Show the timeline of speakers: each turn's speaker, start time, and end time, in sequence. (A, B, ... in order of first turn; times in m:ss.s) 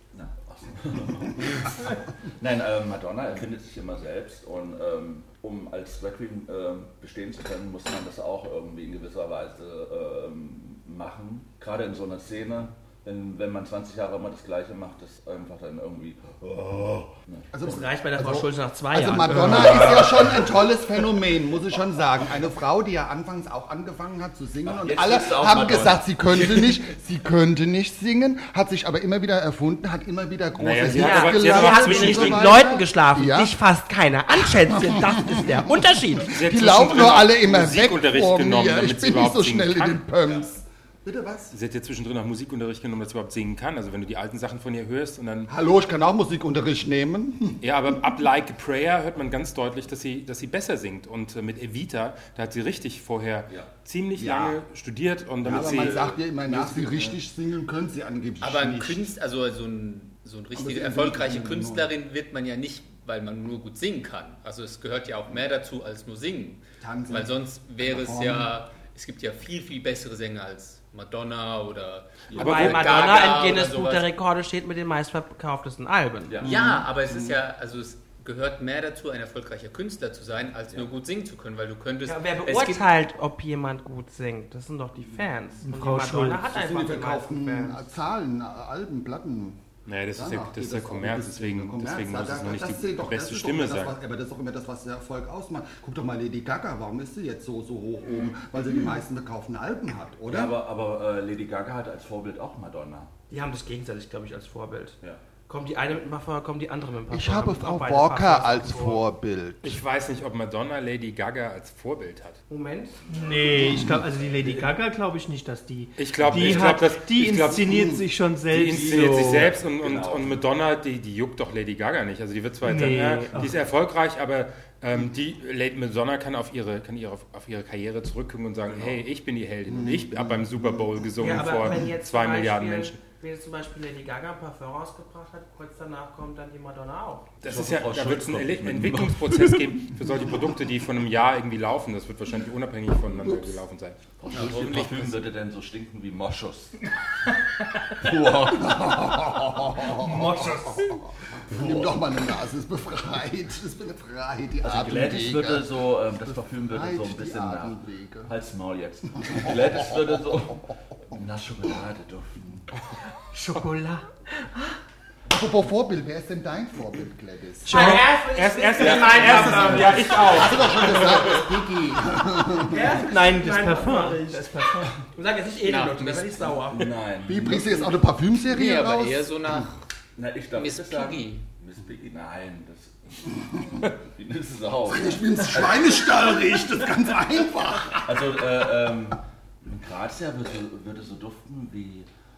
0:00.1-0:17.5 A
0:17.5-0:33.5 B
0:17.6-0:20.0 C
0:19.3-0:20.5 A
0:24.6-0:26.7 A
0:30.6-0:32.7 D
0:31.0-0:36.3 C
0:34.8-0:35.4 B
0:36.3-0:40.1 D
0:36.3-0:41.6 B
0:41.5-0:45.5 D
0:45.5-0:47.9 B
0:47.6-0:56.2 D
0:53.5-0:53.8 A
0:54.2-0:54.6 B
0:55.4-0:59.1 B
0:56.5-0:57.2 A
0:58.4-1:14.1 E
1:00.6-1:01.9 B
1:06.8-1:08.5 B
1:12.4-1:16.4 C
1:12.4-1:13.2 D
1:16.3-1:16.8 A
1:16.4-1:22.9 E
1:16.5-1:17.4 B
1:22.1-1:27.8 C
1:25.6-1:26.5 F
1:26.4-1:29.6 B
1:29.9-1:34.0 D
1:30.2-1:40.6 B
1:40.3-1:43.1 A
1:43.3-1:49.0 C
1:47.1-1:49.8 B
1:49.6-1:52.4 D
1:52.5-1:53.0 C
1:53.0-1:54.7 A
1:53.1-1:59.2 F
1:56.0-1:57.9 D
1:56.2-1:56.6 A
1:58.5-2:13.0 D
1:58.6-2:00.4 A
2:02.6-2:03.5 F
2:08.7-2:09.0 A
2:09.7-2:11.8 B
2:11.2-2:17.4 C
2:17.4-2:24.0 D
2:17.4-2:20.0 A
2:23.2-2:23.6 B
2:24.2-2:26.8 A
2:24.3-2:25.2 E
2:28.0-2:29.3 A
2:28.5-2:38.3 B
2:30.0-2:31.0 F
2:31.5-2:32.0 A
2:34.6-2:42.7 A
2:43.3-2:44.8 F
2:45.3-2:47.9 B
2:47.7-2:48.1 F
2:47.7-2:51.4 D
2:47.7-2:50.5 C
2:48.8-2:50.0 A
2:49.8-2:53.0 B
2:52.6-2:56.9 C
2:53.0-2:55.0 F
2:55.6-2:56.3 E
2:56.5-2:58.0 A
2:57.2-2:59.7 B
2:58.5-2:59.8 E
3:00.2-3:05.9 A
3:00.5-3:01.4 E
3:04.9-3:08.6 B
3:08.0-3:12.1 A